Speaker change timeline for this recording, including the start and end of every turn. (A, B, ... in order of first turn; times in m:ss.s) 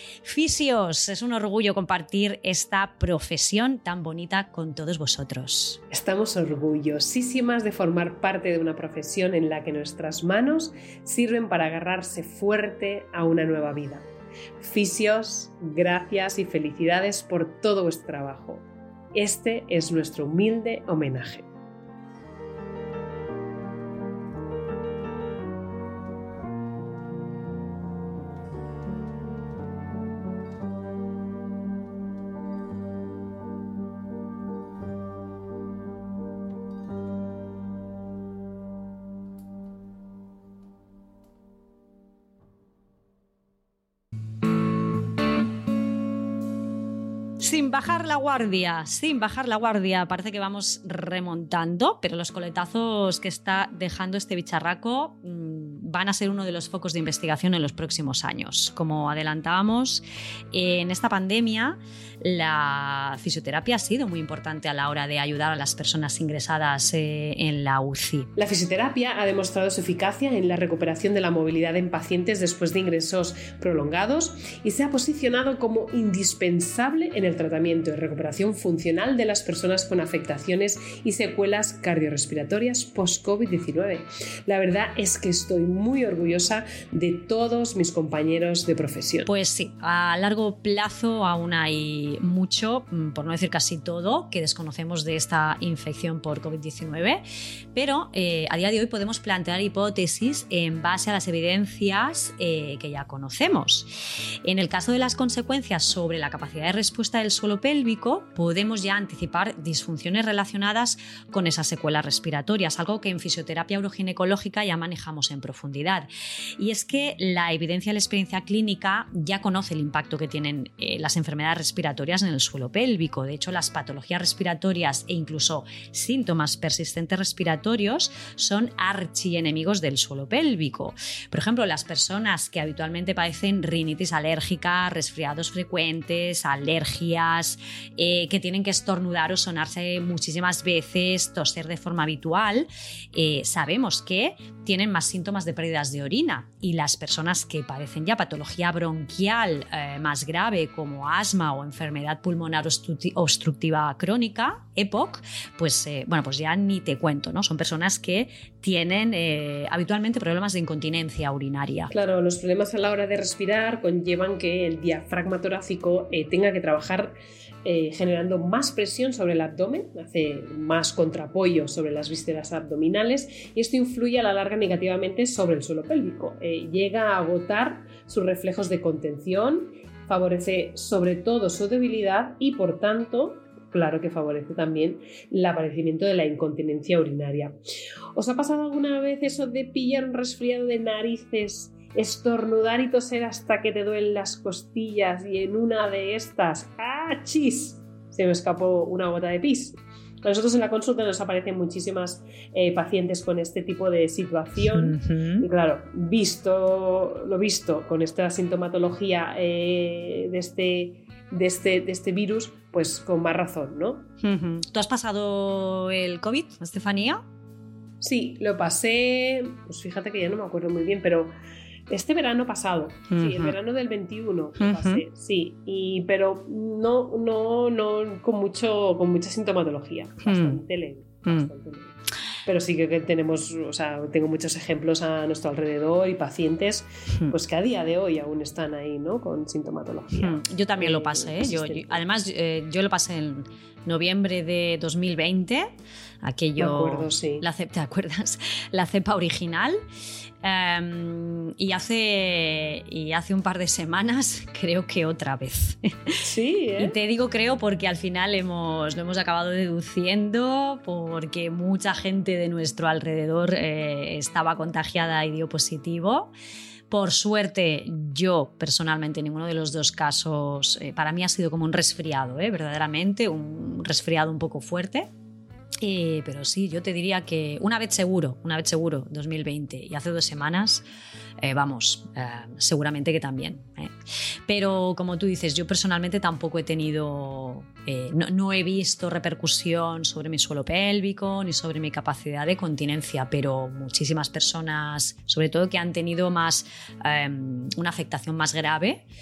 0:00.2-0:05.8 A
0:05.9-0:14.1 B
0:14.6-0:21.5 B
0:47.4-1:08.3 A
1:08.4-1:29.3 B
1:29.2-1:37.2 A
1:37.7-1:43.9 A
1:44.4-1:56.1 A
1:56.6-2:41.9 A
2:41.9-3:07.6 B
3:08.1-3:34.1 B
3:24.6-3:25.4 A
3:34.2-3:37.2 A
3:38.0-3:41.3 B
3:41.9-3:51.9 B
3:43.1-3:43.5 A
3:44.6-3:45.0 A
3:50.2-3:50.6 A
3:51.2-3:51.5 A
3:52.4-4:02.0 B
4:00.1-4:09.8 A
4:06.6-4:07.4 B
4:10.4-4:16.2 A
4:16.2-4:17.0 B
4:16.8-4:26.3 A
4:26.9-4:35.1 A
4:35.8-4:40.8 A
4:41.4-4:43.9 A
4:44.5-4:59.0 A